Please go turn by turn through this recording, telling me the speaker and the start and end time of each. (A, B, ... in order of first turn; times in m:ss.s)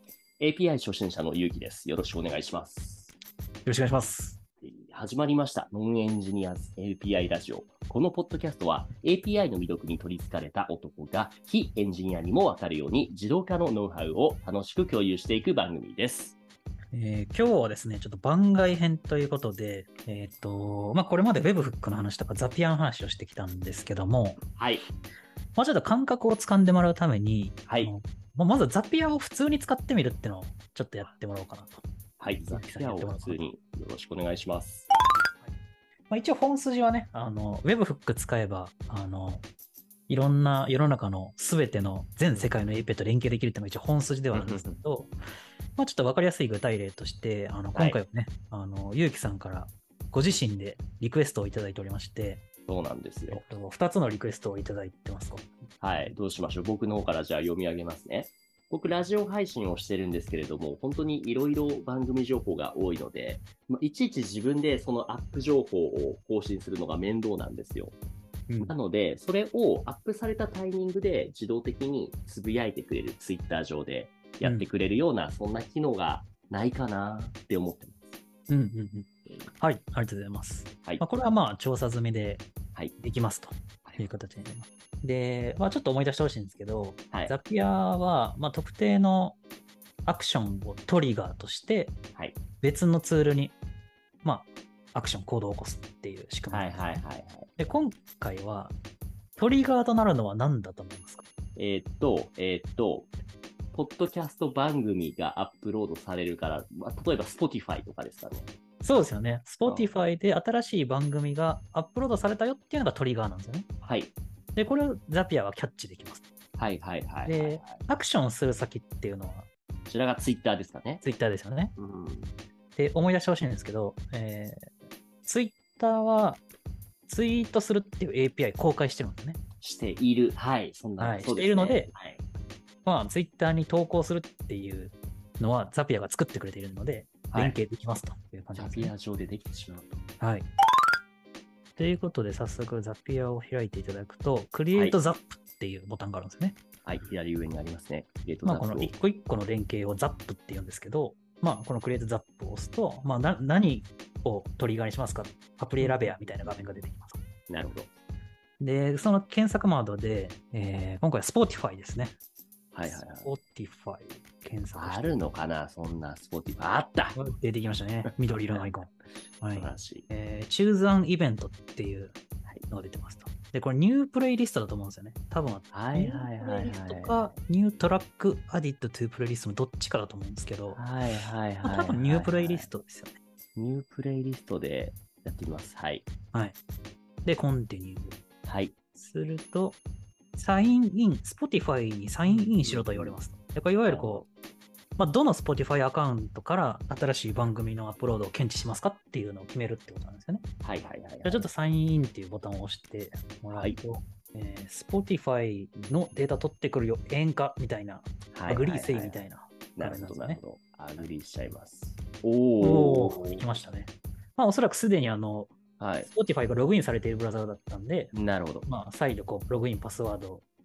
0:00.4-0:03.1 A
0:03.6-0:04.4 B
0:04.6-0:16.4 A
0:16.9-0:24.4 B
0:24.6-0:24.8 A
0:25.6-0:31.8 B
0:27.7-0:27.9 A
0:32.2-0:34.9 A
0:32.5-0:33.5 B
0:36.1-0:39.5 B
0:40.1-0:45.1 B
0:44.3-0:44.8 A
0:45.8-0:52.4 B
0:52.7-0:53.4 A
0:53.3-0:55.5 B
0:55.8-1:08.0 A
1:08.5-1:08.8 B
1:08.6-1:18.2 A
1:18.5-1:22.5 B
1:23.0-1:29.4 B
1:30.0-1:31.9 B
1:32.6-1:33.6 B
1:34.2-1:37.0 B
1:36.5-1:37.5 A
1:37.6-1:38.8 B
1:39.4-1:41.2 B
1:41.6-1:43.1 A
1:43.7-1:48.5 A
1:48.8-1:53.7 B
1:49.7-1:49.9 A
1:53.8-1:54.1 A
1:54.6-1:56.2 B
1:56.6-1:57.9 A
1:57.3-1:59.5 B
1:59.9-2:01.0 A
2:01.0-2:01.7 B
2:01.8-2:02.4 A
2:02.8-2:04.7 B
2:05.2-2:06.4 B
2:07.1-2:09.4 B
2:09.6-2:12.2 A
2:11.0-2:11.9 B
2:12.8-2:18.9 B
2:17.3-2:17.6 A
2:18.6-2:20.0 A
2:20.2-2:20.5 B
2:21.8-2:26.6 B
2:26.9-2:28.9 A
2:28.4-2:37.2 B
2:35.8-2:36.5 A
2:37.5-2:37.9 A
2:38.6-2:42.2 B
2:42.7-2:43.3 A
2:42.9-2:45.2 B
2:44.8-2:47.2 A
2:47.1-2:52.2 B
2:48.1-2:48.7 A
2:49.5-2:50.1 A
2:52.7-3:00.8 B
2:55.7-2:57.4 A
3:00.7-3:02.7 A
3:01.6-3:03.2 B
3:03.6-3:06.1 A
3:07.2-3:08.2 B
3:08.4-3:08.8 A
3:09.0-3:09.8 B
3:10.4-3:14.3 B
3:12.3-3:13.2 A
3:13.9-3:14.3 A
3:15.0-3:20.5 B
3:20.6-3:21.5 A
3:21.2-3:30.4 B
3:23.5-3:23.8 A
3:28.3-3:29.2 A
3:29.8-3:33.5 A
3:32.6-3:35.6 B
3:35.8-3:36.1 A
3:36.1-3:38.1 B
3:38.1-3:38.7 A
3:38.6-3:40.4 B